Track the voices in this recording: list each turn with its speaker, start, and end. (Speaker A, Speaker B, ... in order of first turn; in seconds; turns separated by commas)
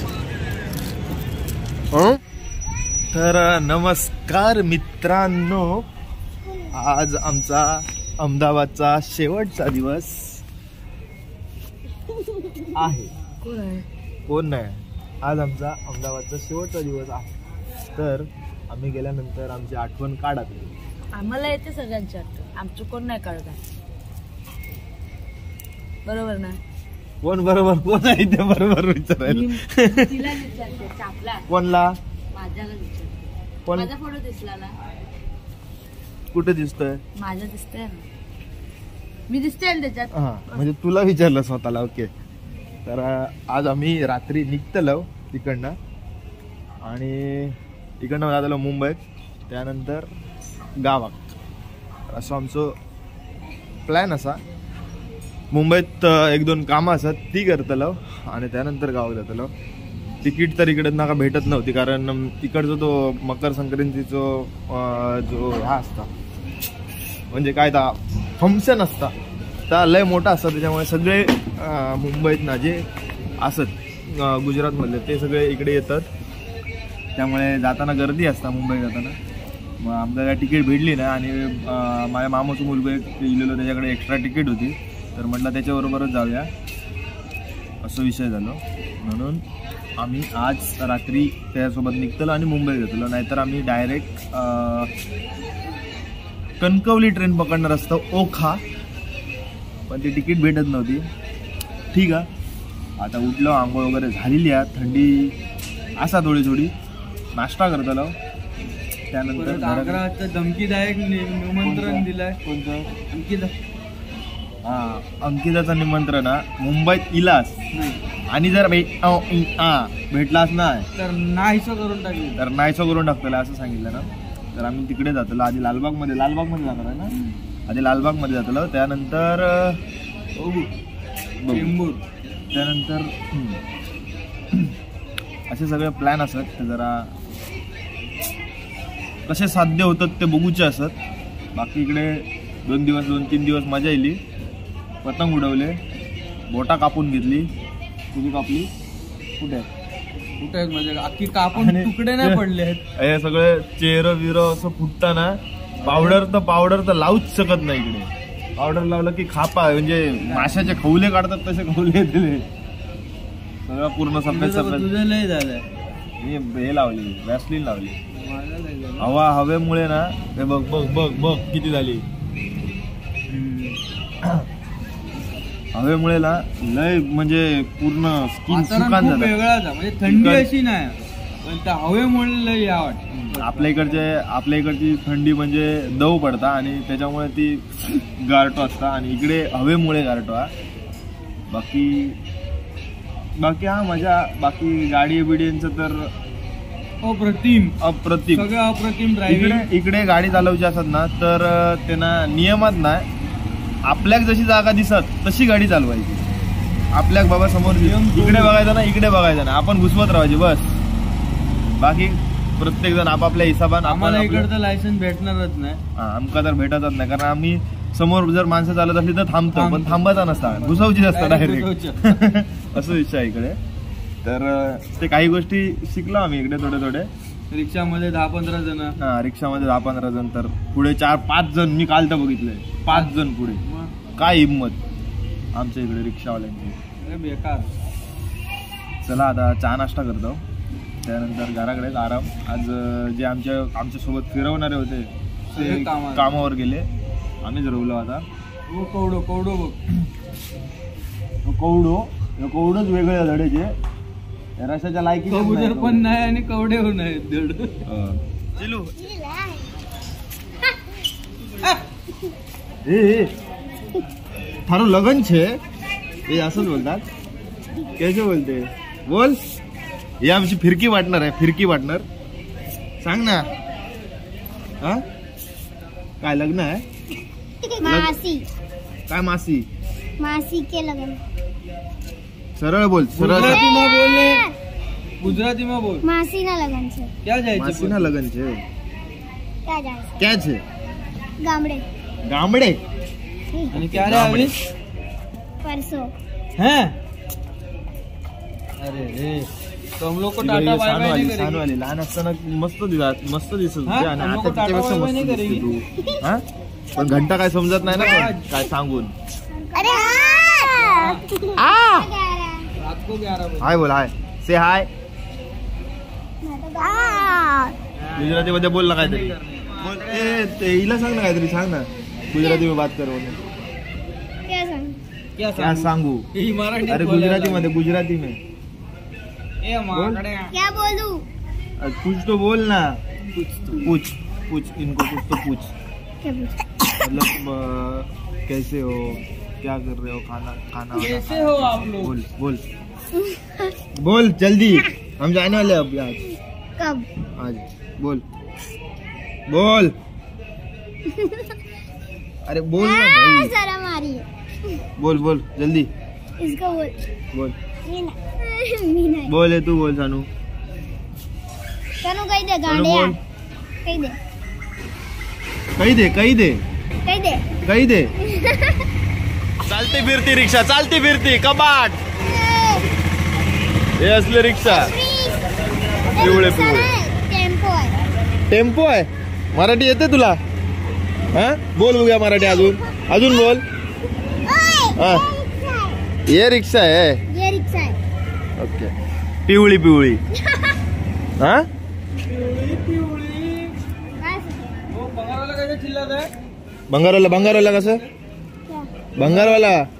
Speaker A: 1.9-2.2, Speaker A: 3.1-5.8, Speaker A: 6.7-10.4, Speaker A: 12.7-13.1, Speaker B: 13.4-13.8, Speaker A: 14.3-17.3, Speaker A: 17.9-20.7, Speaker B: 21.1-23.6, Speaker B: 26.1-26.6, Speaker A: 27.2-30.2, Speaker B: 29.3-31.4, Speaker A: 31.5-31.9, Speaker B: 32.3-34.8, Speaker A: 33.7-33.9, Speaker A: 36.3-37.0, Speaker B: 37.1-38.0, Speaker B: 39.3-40.6, Speaker A: 40.1-42.1, Speaker A: 42.9-45.8, Speaker A: 46.8-49.0, Speaker A: 49.5-50.1, Speaker A: 50.8-51.3, Speaker A: 52.1-52.7, Speaker A: 53.9-54.4, Speaker A: 55.5-59.5, Speaker A: 60.2-66.1, Speaker A: 67.3-69.1, Speaker A: 69.7-72.8, Speaker A: 73.4-76.1, Speaker A: 77.2-79.2, Speaker A: 79.8-86.5, Speaker A: 87.8-89.4, Speaker A: 90.0-94.9, Speaker A: 96.6-98.6, Speaker A: 99.9-101.1, Speaker A: 101.9-102.2, Speaker A: 103.0-105.3, Speaker A: 106.0-106.7, Speaker A: 107.3-108.2, Speaker A: 109.1-110.0, Speaker C: 109.3-112.4, Speaker A: 111.6-112.9, Speaker C: 113.1-113.5, Speaker A: 114.6-117.5, Speaker C: 117.7-118.0, Speaker A: 118.3-120.8, Speaker C: 121.0-122.4, Speaker A: 122.3-127.1, Speaker A: 127.7-129.8, Speaker C: 130.3-130.7, Speaker A: 131.4-131.7, Speaker C: 131.5-132.0, Speaker A: 132.5-133.6, Speaker A: 135.5-137.1, Speaker A: 139.3-140.9, Speaker A: 141.5-144.2, Speaker A: 145.0-145.8, Speaker A: 146.5-147.5, Speaker A: 148.1-148.7, Speaker A: 149.4-149.7, Speaker C: 150.4-152.8, Speaker A: 151.5-152.4, Speaker A: 152.9-162.5, Speaker C: 155.8-156.2, Speaker C: 160.2-160.7, Speaker A: 163.7-164.9, Speaker C: 164.3-165.6, Speaker A: 166.2-168.0, Speaker C: 168.1-169.1, Speaker A: 169.0-172.0, Speaker C: 173.3-173.8, Speaker A: 175.7-179.3, Speaker C: 178.5-184.0, Speaker A: 180.0-180.5, Speaker A: 183.1-190.5, Speaker A: 191.5-192.2, Speaker A: 193.4-196.1, Speaker C: 197.0-197.8, Speaker A: 197.8-198.5, Speaker C: 198.3-199.7, Speaker A: 199.3-203.1, Speaker A: 203.8-206.2, Speaker A: 206.9-210.6, Speaker C: 207.6-208.6, Speaker A: 211.8-214.5, Speaker C: 213.8-215.8, Speaker A: 215.9-223.6, Speaker C: 219.5-222.2, Speaker A: 224.2-227.1, Speaker C: 227.5-228.9, Speaker A: 229.0-233.6, Speaker C: 233.6-233.9, Speaker A: 234.2-234.8, Speaker A: 235.5-236.8, Speaker C: 237.0-237.7, Speaker A: 239.0-240.4, Speaker A: 241.0-246.9, Speaker C: 245.5-246.3, Speaker A: 247.4-248.2, Speaker C: 248.7-249.8, Speaker A: 251.4-253.7, Speaker A: 254.6-256.0, Speaker C: 255.3-257.8, Speaker A: 257.9-259.0, Speaker D: 259.0-259.7, Speaker A: 262.8-263.3, Speaker A: 264.7-265.6, Speaker A: 266.3-267.0, Speaker A: 268.0-269.4, Speaker A: 270.2-272.0, Speaker A: 273.0-273.5, Speaker A: 276.2-276.8, Speaker D: 277.6-278.4, Speaker A: 277.8-278.1, Speaker A: 279.1-279.6, Speaker D: 280.2-281.2, Speaker A: 282.6-283.6, Speaker C: 283.1-284.5, Speaker D: 283.4-284.5, Speaker C: 285.2-286.0, Speaker D: 286.0-287.1, Speaker C: 287.2-288.1, Speaker A: 287.6-288.6, Speaker D: 289.6-290.3, Speaker A: 290.2-290.6, Speaker D: 291.4-291.8, Speaker A: 292.3-292.8, Speaker C: 293.7-294.5, Speaker A: 293.9-294.6, Speaker D: 295.6-296.1, Speaker C: 296.6-296.9, Speaker C: 298.8-301.6, Speaker A: 300.4-306.4, Speaker C: 303.9-305.7, Speaker A: 306.9-309.1, Speaker C: 307.8-308.4, Speaker D: 309.5-312.7, Speaker C: 310.7-311.2, Speaker C: 312.8-313.7, Speaker A: 313.6-314.9, Speaker D: 316.4-317.7, Speaker C: 318.1-320.4, Speaker A: 318.1-323.4, Speaker D: 322.4-322.6, Speaker D: 324.4-325.0, Speaker C: 325.4-327.7, Speaker A: 325.6-326.2, Speaker A: 326.9-328.4, Speaker C: 329.6-330.5, Speaker A: 329.9-330.2, Speaker D: 330.5-331.3, Speaker A: 331.8-333.0, Speaker C: 333.3-333.9, Speaker A: 333.8-335.7, Speaker D: 336.2-336.7, Speaker A: 337.0-342.6, Speaker C: 340.9-342.1, Speaker D: 343.1-343.8, Speaker A: 343.9-346.2, Speaker D: 346.8-347.1, Speaker A: 347.4-348.2, Speaker A: 349.5-349.9, Speaker D: 351.1-351.5, Speaker A: 352.4-353.5, Speaker D: 352.8-354.8, Speaker A: 355.0-355.9, Speaker D: 356.4-357.0, Speaker D: 357.8-359.3, Speaker A: 359.3-360.3, Speaker D: 362.0-363.2, Speaker A: 362.6-363.2, Speaker D: 363.8-364.2, Speaker A: 365.8-366.6, Speaker D: 367.0-367.5, Speaker A: 367.6-368.1, Speaker D: 368.2-368.8, Speaker A: 369.6-372.0, Speaker D: 372.2-372.9, Speaker A: 374.0-374.9, Speaker D: 374.6-375.4, Speaker D: 376.1-378.0, Speaker A: 376.1-376.9, Speaker A: 378.5-380.4, Speaker A: 381.3-383.6, Speaker D: 382.4-383.5, Speaker D: 384.4-386.0, Speaker A: 384.9-385.2, Speaker A: 386.3-387.2, Speaker D: 387.3-388.0, Speaker A: 388.6-388.9, Speaker A: 389.4-390.2, Speaker A: 391.4-391.6, Speaker C: 392.2-393.8, Speaker D: 394.1-394.8, Speaker C: 394.9-396.3, Speaker A: 396.9-398.0, Speaker C: 397.3-398.1, Speaker D: 398.7-399.0, Speaker A: 399.2-399.8, Speaker C: 399.2-399.7